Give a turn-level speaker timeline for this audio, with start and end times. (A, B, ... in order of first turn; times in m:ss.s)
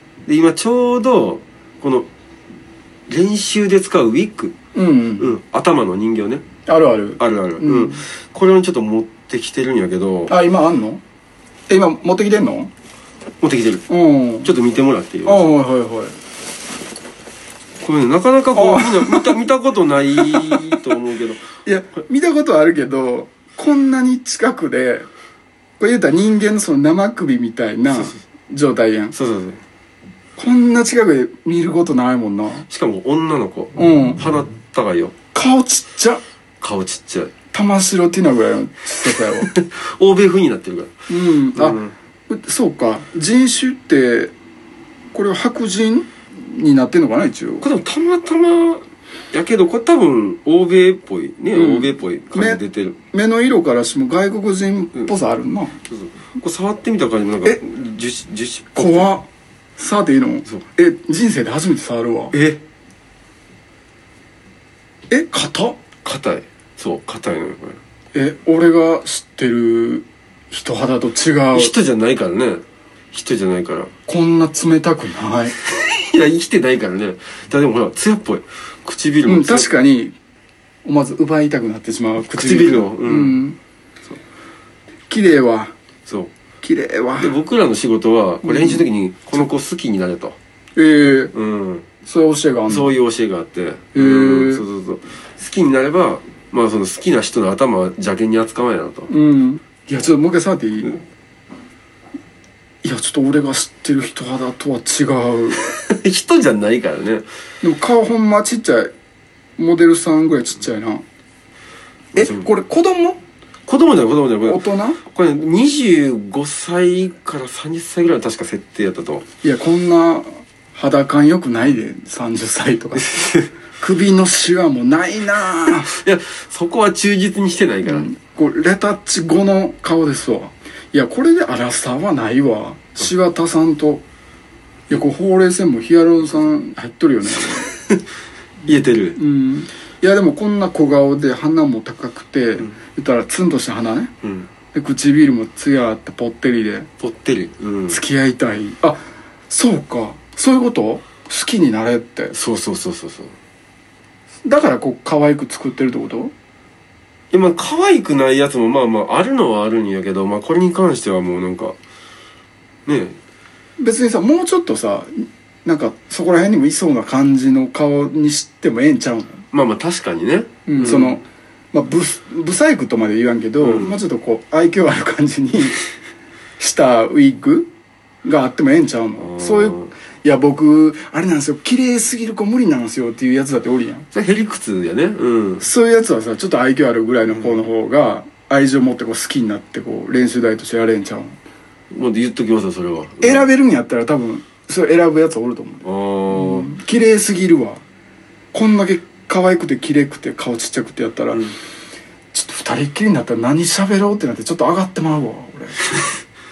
0:00.2-0:02.1 A
0:03.1-0:04.6 A
0:04.7-0:05.4 B
0:05.2-0:06.4 A
0:06.6-0:08.0 B
0:07.2-0:10.3 A
0:10.3-0:11.0 B
0:11.7-0:12.7 B
0:13.4-0:13.9 A
0:13.9-0:14.5 B
0:14.4-0:15.5 A
0:15.2-0:16.2 B
0:17.8-0:21.4 A
0:18.5-0:19.4 B
0:20.1-0:20.8 B
0:21.6-0:25.1 B
0:25.8-0:29.1 B
0:29.1-0:29.6 A
0:30.4-0:32.7 B
0:32.7-0:35.1 A
0:33.8-0:34.2 B
0:35.3-0:36.2 B
0:36.6-0:37.3 A
0:37.5-0:39.5 B
0:39.4-0:40.9 A
0:41.1-0:44.3 B
0:41.5-0:41.9 A
0:45.1-0:47.6 B
0:47.6-0:53.0 A
0:51.5-0:52.6 B
0:53.1-0:55.8 B
0:55.9-0:59.1 A
0:58.8-0:59.3 B
0:59.8-1:02.3 B
1:02.3-1:02.6 A
1:05.1-1:05.8 B
1:06.0-1:07.8 A
1:08.1-1:11.7 B
1:11.5-1:13.9 A
1:14.1-1:15.6 B
1:15.6-1:19.7 A
1:19.2-1:20.1 B
1:20.8-1:23.6 B
1:22.3-1:23.4 A
1:25.1-1:25.7 B
1:26.6-1:27.4 B
1:27.2-1:30.4 A
1:28.4-1:28.9 B
1:30.7-1:31.3 B
1:31.3-1:31.8 A
1:32.0-1:32.9 B
1:32.7-1:39.1 A
1:33.9-1:34.6 B
1:39.1-1:41.0 B
1:42.8-1:45.7 B
1:45.6-1:47.2 A
1:47.6-1:48.9 B
1:49.6-1:51.0 B
1:52.1-1:53.2 B
1:52.2-1:52.5 A
1:53.6-1:59.2 A
1:54.4-1:55.0 B
1:59.4-2:03.2 B
2:03.0-2:03.5 A
2:03.8-2:05.9 B
2:05.7-2:08.1 A
2:07.8-2:14.0 B
2:14.9-2:17.7 B
2:18.6-2:19.2 A
2:19.0-2:24.1 B
2:24.2-2:24.5 A
2:24.7-2:26.9 B
2:27.0-2:28.0 A
2:27.9-2:32.3 B
2:32.3-2:33.3 A
2:34.4-2:36.3 B
2:37.3-2:41.7 A
2:42.8-2:43.2 A
2:43.8-2:49.4 B
2:49.5-2:51.2 A
2:50.6-2:55.8 B
2:53.6-2:54.0 A
2:56.6-2:57.7 B
2:58.2-3:04.1 B
2:59.2-2:59.9 A
3:04.1-3:05.6 A
3:05.6-3:11.4 B
3:11.9-3:13.5 A
3:13.2-3:17.8 B
3:15.8-3:16.7 A
3:18.5-3:21.5 B
3:22.3-3:25.8 B